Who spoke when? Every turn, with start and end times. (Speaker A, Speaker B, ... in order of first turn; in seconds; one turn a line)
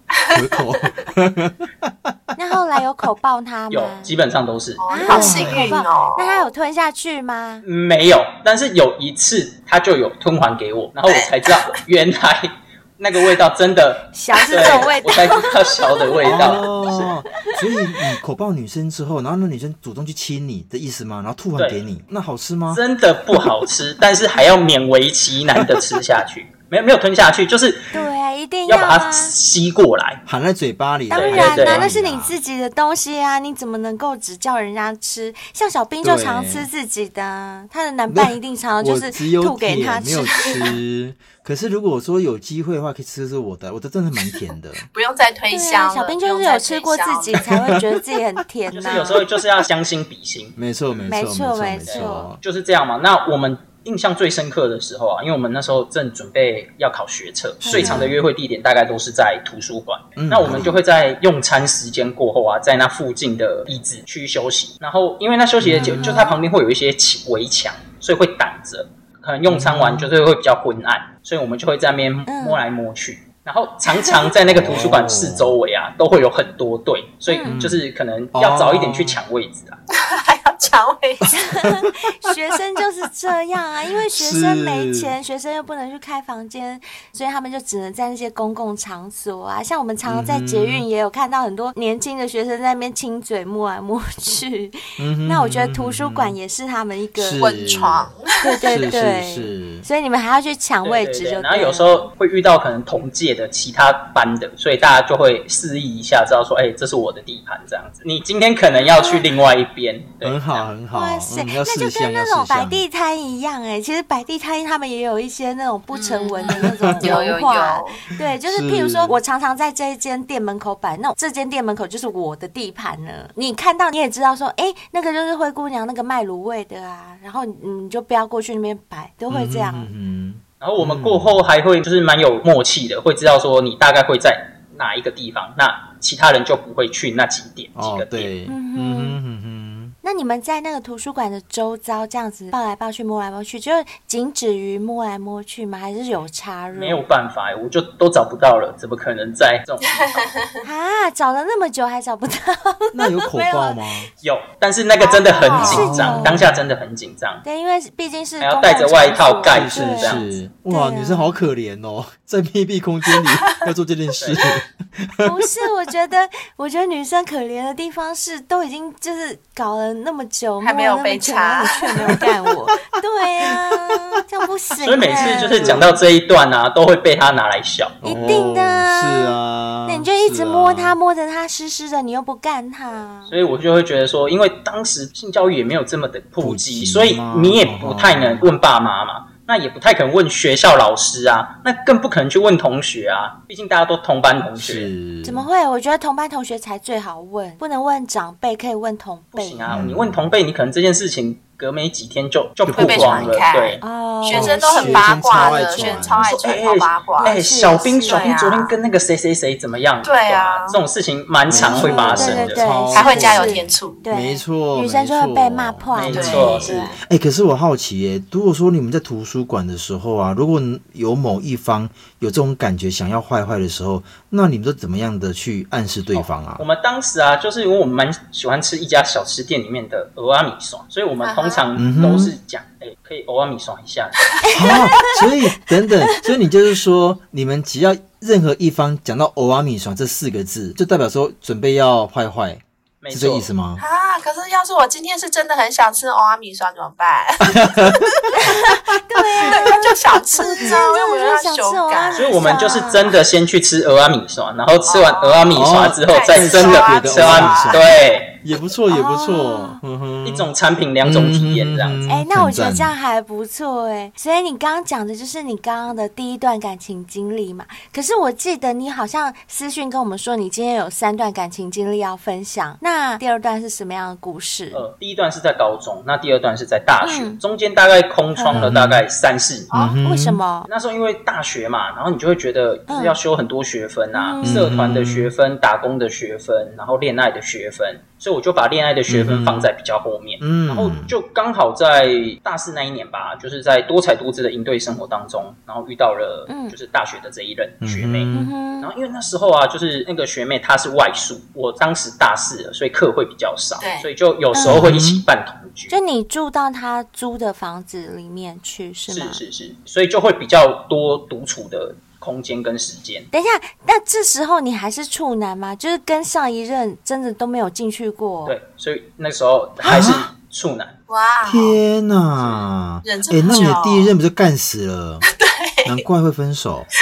Speaker A: 0.1-0.5
Speaker B: 0.3-2.4
Speaker C: 2.4-4.1
Speaker D: 3.7-5.3
Speaker A: 4.8-6.5
Speaker C: 4.9-7.7
Speaker B: 5.0-5.8
Speaker D: 7.6-17.1
Speaker A: 11.1-11.5
Speaker C: 14.1-16.9
Speaker A: 14.3-14.9
Speaker B: 16.2-22.8
Speaker D: 21.6-21.8
Speaker D: 22.7-28.1
Speaker B: 25.6-25.8
Speaker C: 27.9-29.3
Speaker D: 28.7-30.2
Speaker B: 30.3-32.4
Speaker C: 31.1-40.8
Speaker D: 31.1-31.9
Speaker B: 36.0-36.7
Speaker B: 38.1-44.9
Speaker A: 44.8-47.5
Speaker C: 45.5-49.2
Speaker B: 47.4-48.0
Speaker D: 48.7-50.6
Speaker B: 49.2-49.5
Speaker B: 50.6-52.4
Speaker C: 51.1-52.3
Speaker D: 51.9-79.8
Speaker B: 57.6-58.2
Speaker C: 57.6-58.1
Speaker B: 60.2-60.8
Speaker B: 65.6-66.2
Speaker C: 65.8-66.4
Speaker B: 69.5-70.1
Speaker C: 72.3-72.6
Speaker C: 73.9-74.3
Speaker B: 74.5-75.6
Speaker C: 77.3-77.6
Speaker B: 77.5-77.8
Speaker B: 78.3-79.2
Speaker A: 80.0-81.4
Speaker B: 81.2-82.0
Speaker C: 81.3-97.5
Speaker B: 84.1-85.1
Speaker B: 90.0-90.9
Speaker B: 95.0-96.4
Speaker B: 97.2-98.1
Speaker A: 97.3-98.8
Speaker C: 98.4-102.1
Speaker B: 98.7-99.9
Speaker D: 100.8-110.7
Speaker C: 109.0-109.3
Speaker B: 110.2-112.8
Speaker C: 110.9-129.9
Speaker A: 115.9-118.0
Speaker B: 116.5-117.2
Speaker B: 118.2-119.2
Speaker B: 129.3-131.5
Speaker D: 130.6-138.3
Speaker B: 137.8-139.9
Speaker C: 138.5-139.2
Speaker C: 140.0-147.0
Speaker D: 146.7-150.2
Speaker A: 150.0-150.5
Speaker C: 150.6-153.8
Speaker B: 152.9-154.1
Speaker D: 154.2-157.4
Speaker A: 155.0-155.9
Speaker B: 155.6-156.6
Speaker C: 155.7-156.4
Speaker C: 157.4-161.4
Speaker D: 158.4-160.4
Speaker B: 159.4-165.4
Speaker D: 164.2-164.5
Speaker C: 165.2-175.9
Speaker A: 170.6-172.3
Speaker D: 174.8-178.4
Speaker B: 175.1-176.0
Speaker B: 178.0-181.0
Speaker C: 178.0-183.3
Speaker D: 183.3-194.9
Speaker B: 186.4-188.5
Speaker B: 194.6-195.5
Speaker C: 195.2-199.8
Speaker D: 199.3-203.8
Speaker B: 199.7-200.3
Speaker B: 202.7-203.5
Speaker A: 202.7-208.7
Speaker C: 203.8-206.1
Speaker B: 204.3-206.6
Speaker D: 206.2-212.7
Speaker C: 207.2-208.3
Speaker A: 210.0-210.8
Speaker B: 211.5-226.7
Speaker C: 211.6-216.7
Speaker A: 212.9-214.1
Speaker D: 215.9-216.9
Speaker A: 216.1-217.0
Speaker D: 226.1-234.4
Speaker A: 231.2-231.7
Speaker B: 231.8-232.4
Speaker C: 234.4-235.2
Speaker B: 234.5-243.8
Speaker D: 243.0-243.5
Speaker A: 243.8-248.2
Speaker B: 247.4-248.1
Speaker C: 248.3-253.1
Speaker A: 249.4-252.7
Speaker D: 252.1-258.3
Speaker A: 254.9-258.0
Speaker B: 255.5-257.9
Speaker B: 258.4-260.5
Speaker C: 258.9-259.8
Speaker D: 260.2-262.0
Speaker B: 261.0-262.9
Speaker C: 262.1-274.8
Speaker D: 274.7-279.8
Speaker C: 277.0-277.4
Speaker C: 278.4-278.7
Speaker B: 278.5-279.1
Speaker A: 279.7-280.0
Speaker B: 279.7-280.4
Speaker C: 280.0-280.7
Speaker D: 280.7-306.0
Speaker C: 282.9-283.2
Speaker C: 284.1-284.7
Speaker B: 284.4-285.3
Speaker B: 289.1-289.7
Speaker B: 290.4-291.1
Speaker C: 296.5-296.8
Speaker B: 297.8-298.5
Speaker C: 298.3-298.9
Speaker A: 303.8-304.1
Speaker C: 304.5-304.9
Speaker B: 304.6-305.2
Speaker C: 305.9-309.4
Speaker D: 309.1-313.3
Speaker C: 313.3-318.6
Speaker D: 318.5-321.0
Speaker B: 319.8-320.3
Speaker A: 321.1-321.8
Speaker B: 321.5-325.2
Speaker D: 322.4-322.7
Speaker A: 323.0-324.1
Speaker A: 325.3-326.0
Speaker B: 325.9-326.9